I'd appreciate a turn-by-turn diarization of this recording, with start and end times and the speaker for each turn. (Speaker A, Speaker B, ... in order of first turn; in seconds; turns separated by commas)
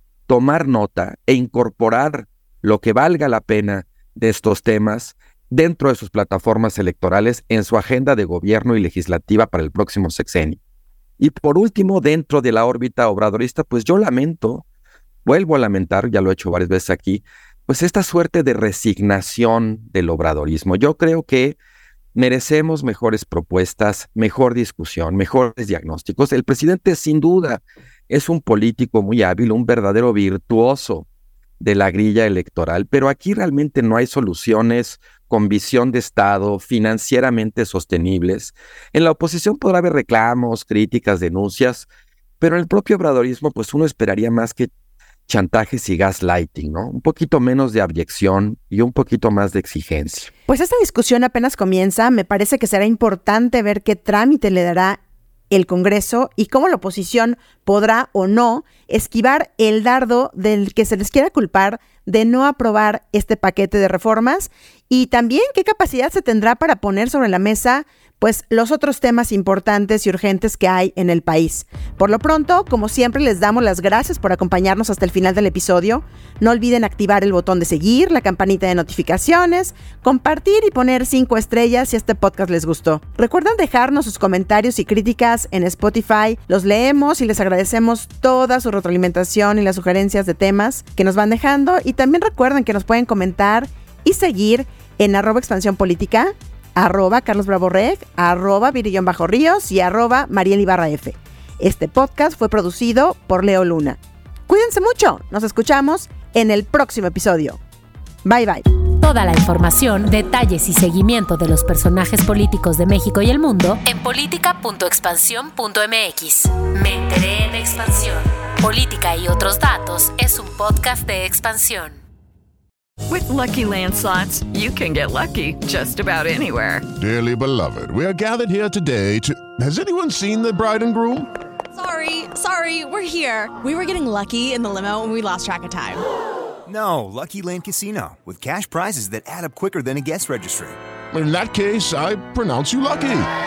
Speaker A: 0.3-10.6, Speaker A: 11.2-14.6, Speaker A: 15.2-21.6, Speaker A: 22.1-31.1, Speaker A: 31.6-41.9, Speaker A: 42.4-44.7, Speaker A: 45.3-50.3, Speaker B: 50.5-107.6, Speaker B: 108.2-108.6, Speaker C: 109.0-122.0, Speaker D: 123.1-126.9, Speaker E: 127.0-131.3, Speaker F: 131.7-136.0, Speaker G: 136.7-140.8, Speaker E: 141.1-143.3